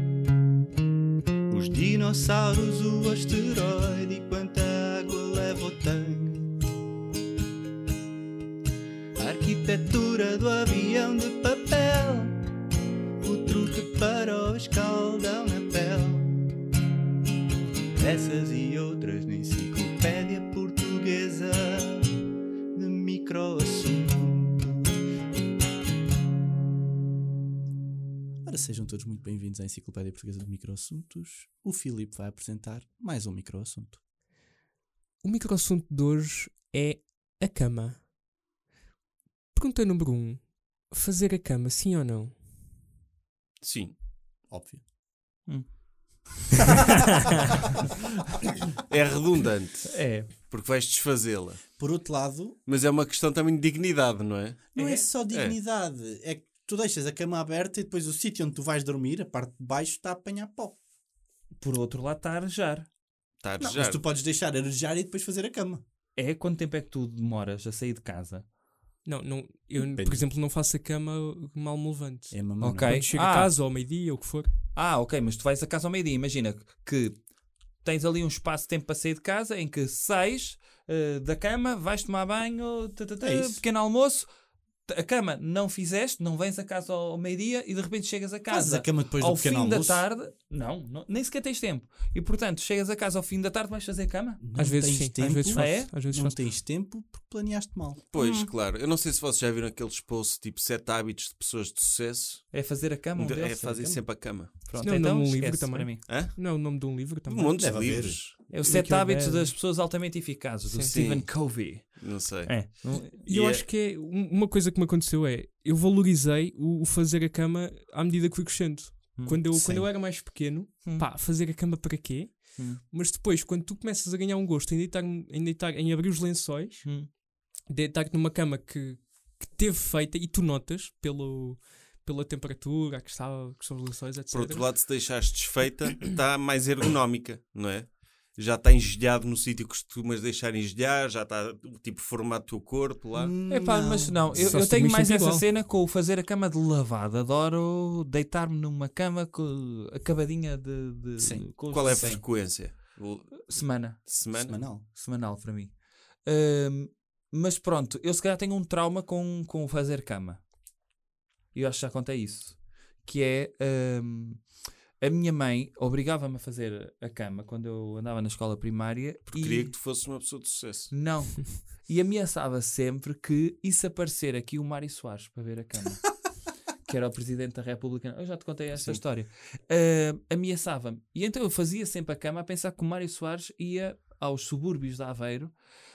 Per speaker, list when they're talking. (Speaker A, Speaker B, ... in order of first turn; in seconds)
Speaker A: 1.5-6.5, 9.2-12.4, 13.2-16.3, 18.0-22.2, 22.7-24.9
Speaker B: 28.4-34.0, 44.5-44.8, 51.8-52.6, 54.7-60.8, 63.6-65.8, 69.8-70.3, 72.3-73.1, 83.2-83.6, 88.5-90.0, 94.4-98.0, 103.6-104.0, 107.6-108.2, 143.2-144.3, 151.2-152.2, 154.3-154.8
Speaker C: 35.2-38.0, 39.5-42.4, 69.0-74.5, 94.6-96.5, 104.8-107.6, 108.6-109.6, 110.7-111.0, 112.9-134.7, 144.3-145.4
Speaker D: 43.6-44.0, 48.9-51.6, 52.7-55.6, 63.4-64.0, 98.1-104.7, 106.0-108.6, 110.9-113.7, 134.3-143.3, 151.7-154.6, 169.3-171.0, 178.7-179.0
Speaker E: 45.5-46.4, 49.9-50.3, 54.8-55.1, 61.6-62.9, 66.2-68.5, 72.6-73.6, 74.7-77.2, 77.8-84.3, 84.9-94.4, 95.5-95.9, 98.1-98.5, 102.5-106.0, 108.5-113.3, 119.2-121.1, 122.6-122.8, 126.8-127.1, 143.5-152.3, 153.5-160.4, 161.5-164.5, 165.0-170.0, 170.9-176.3, 176.8-185.5